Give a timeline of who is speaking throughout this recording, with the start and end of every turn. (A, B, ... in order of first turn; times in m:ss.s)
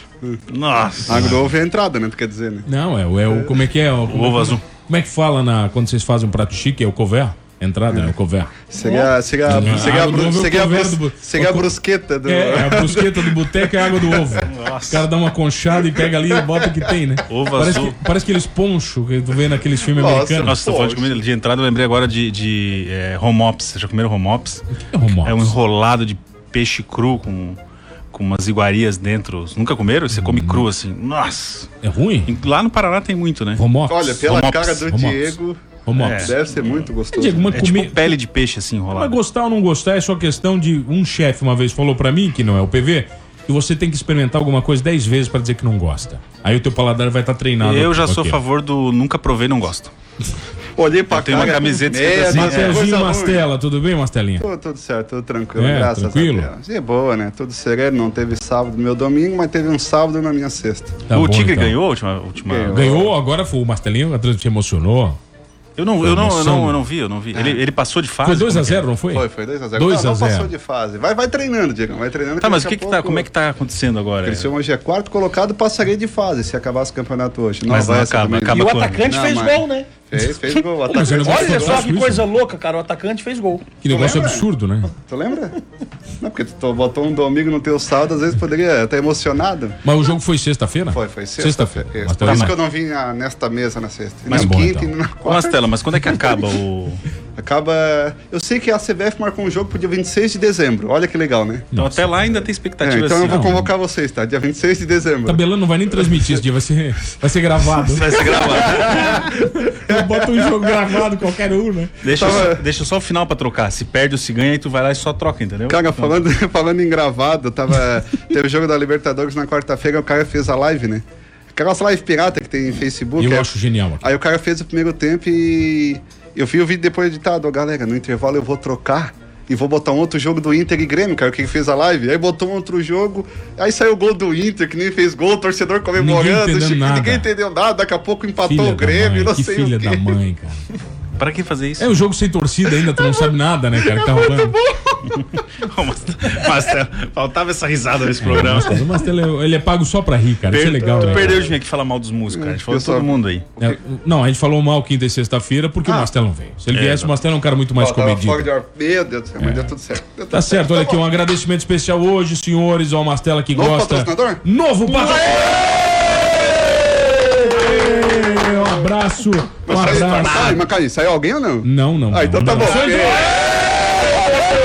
0:00.5-0:01.5 A
0:01.1-0:02.7 B
0:01.1-0:01.5 C
0:02.6-0:08.6 C
0:04.1-0:04.6 A
0:08.7-0:14.4 B
0:09.4-0:20.6 C
0:09.5-0:10.1 A
0:14.5-0:15.0 A
0:17.3-0:18.0 A
0:19.9-0:21.2 B
0:20.4-0:24.6 A
0:24.8-0:25.5 C
0:25.2-0:27.6 A
0:28.1-0:31.7 A
0:30.1-0:30.7 C
0:31.8-0:32.4 C
0:32.2-0:33.6 A
0:33.6-0:36.4 C
0:33.9-0:37.6 B
0:34.2-0:34.9 A
0:36.0-0:36.8 A
0:37.1-0:38.2 C
0:37.5-0:39.1 A
0:38.9-0:48.4 C
0:47.6-0:49.9 A
0:50.8-0:53.4 B
0:51.1-0:52.9 A
0:52.2-0:54.5 C
0:54.4-1:01.0 B
0:55.6-0:56.5 C
1:01.1-1:01.8 C
1:01.1-1:02.9 A
1:02.4-1:03.1 B
1:02.7-1:05.2 C
1:05.8-1:08.8 A
1:06.0-1:06.8 C
1:07.3-1:07.6 B
1:08.2-1:10.5 C
1:09.1-1:13.2 B
1:12.4-1:14.5 A
1:14.2-1:21.9 B
1:17.6-1:19.0 A
1:18.5-1:19.9 D
1:20.9-1:22.2 C
1:21.2-1:23.6 D
1:23.8-1:24.9 C
1:23.9-1:24.4 B
1:25.0-1:25.6 B
1:26.2-1:29.8 B
1:29.8-1:32.6 C
1:30.9-1:35.6 B
1:34.3-1:34.6 A
1:34.3-1:34.9 C
1:35.2-1:37.0 A
1:37.4-1:41.7 B
1:41.7-1:42.1 C
1:41.7-1:43.6 A
1:42.8-1:45.4 B
1:43.2-1:43.7 C
1:45.2-1:52.4 C
1:47.8-1:49.3 A
1:48.2-1:50.8 B
1:52.0-1:56.3 A
1:52.1-1:52.6 B
1:55.7-2:20.0 B
2:03.2-2:04.1 C
2:16.0-2:17.3 C
2:18.4-2:20.6 C
2:21.2-2:21.9 A
2:21.8-2:24.6 C
2:23.0-2:23.2 B
2:23.9-2:25.0 B
2:25.2-2:28.8 A
2:28.2-2:31.5 C
2:30.5-2:33.4 A
2:31.0-2:31.3 B
2:32.3-2:33.8 B
2:33.6-2:38.5 C
2:35.8-2:36.1 B
2:36.7-2:37.1 A
2:37.8-2:41.0 B
2:39.4-2:39.7 C
2:40.3-2:45.6 C
2:43.5-2:44.4 B
2:45.0-2:45.7 B
2:47.4-2:48.8 B
2:47.4-2:50.6 C
2:49.6-2:53.4 B
2:49.7-2:50.6 A
2:51.6-2:53.3 C